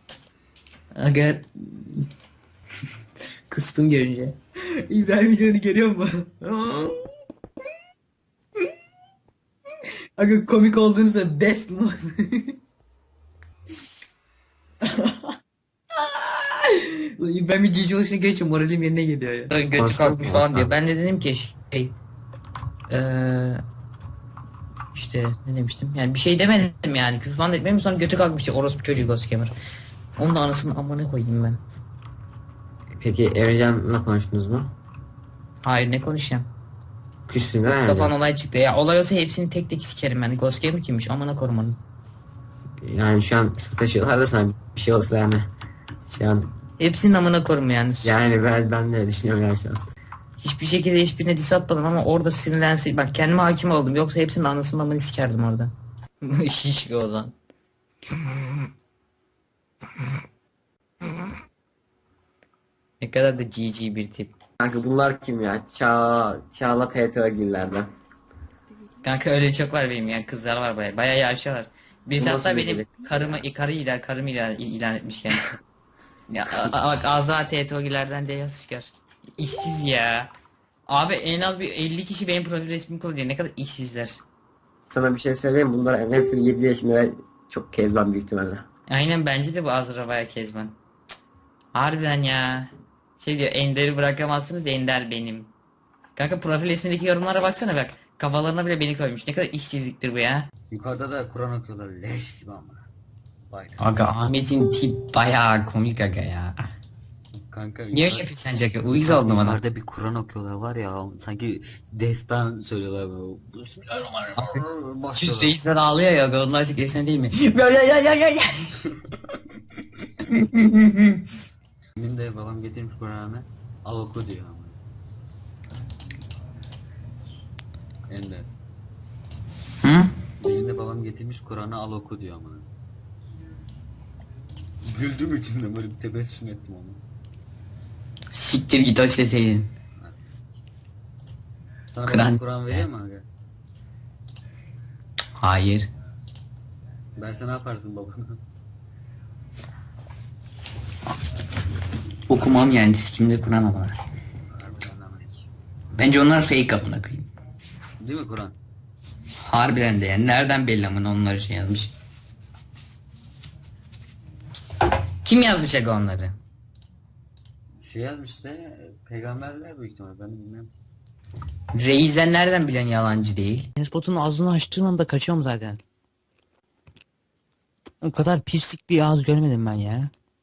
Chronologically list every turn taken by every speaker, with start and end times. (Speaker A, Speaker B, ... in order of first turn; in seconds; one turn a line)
Speaker A: 0.9-2.0
Speaker A: 3.5-4.3
Speaker A: 4.9-7.0
Speaker A: 10.2-12.5
Speaker A: 14.8-15.2
Speaker A: 15.9-21.9
Speaker B: 19.8-20.7
Speaker A: 22.9-23.6
Speaker A: 24.9-29.5
Speaker A: 30.2-31.6
Speaker B: 33.0-34.7
Speaker A: 35.6-36.5
Speaker B: 37.3-38.1
Speaker A: 37.8-41.8
Speaker B: 42.8-45.5
Speaker B: 46.1-46.5
Speaker A: 46.8-48.1
Speaker B: 48.0-49.8
Speaker A: 50.4-57.3
Speaker A: 63.0-64.3
Speaker B: 64.6-67.9
Speaker A: 69.0-75.5
Speaker B: 72.2-73.4
Speaker A: 76.3-80.3
Speaker A: 80.9-84.2
Speaker B: 84.9-88.6
Speaker A: 88.9-90.8
Speaker A: 91.7-95.5
Speaker A: 96.2-100.5
Speaker C: 100.7-102.8
Speaker C: 103.5-104.1
Speaker A: 103.8-106.6
Speaker C: 107.3-108.3
Speaker A: 107.9-109.6
Speaker C: 108.8-115.6
Speaker A: 114.3-114.6
Speaker A: 115.1-118.7
Speaker A: 120.3-121.2
Speaker C: 122.0-124.8
Speaker C: 128.1-128.5
Speaker A: 129.8-130.1
Speaker C: 130.4-132.7
Speaker C: 134.8-137.0
Speaker A: 138.3-139.7
Speaker C: 141.9-143.2
Speaker A: 142.1-142.8
Speaker A: 145.4-145.9
Speaker C: 147.2-148.4
Speaker A: 152.3-154.0
Speaker C: 154.5-155.4
Speaker A: 155.9-157.3
Speaker C: 158.0-158.6
Speaker A: 159.4-161.9
Speaker A: 165.2-166.4
Speaker C: 167.8-170.7
Speaker A: 171.7-175.8
Speaker A: 178.0-180.1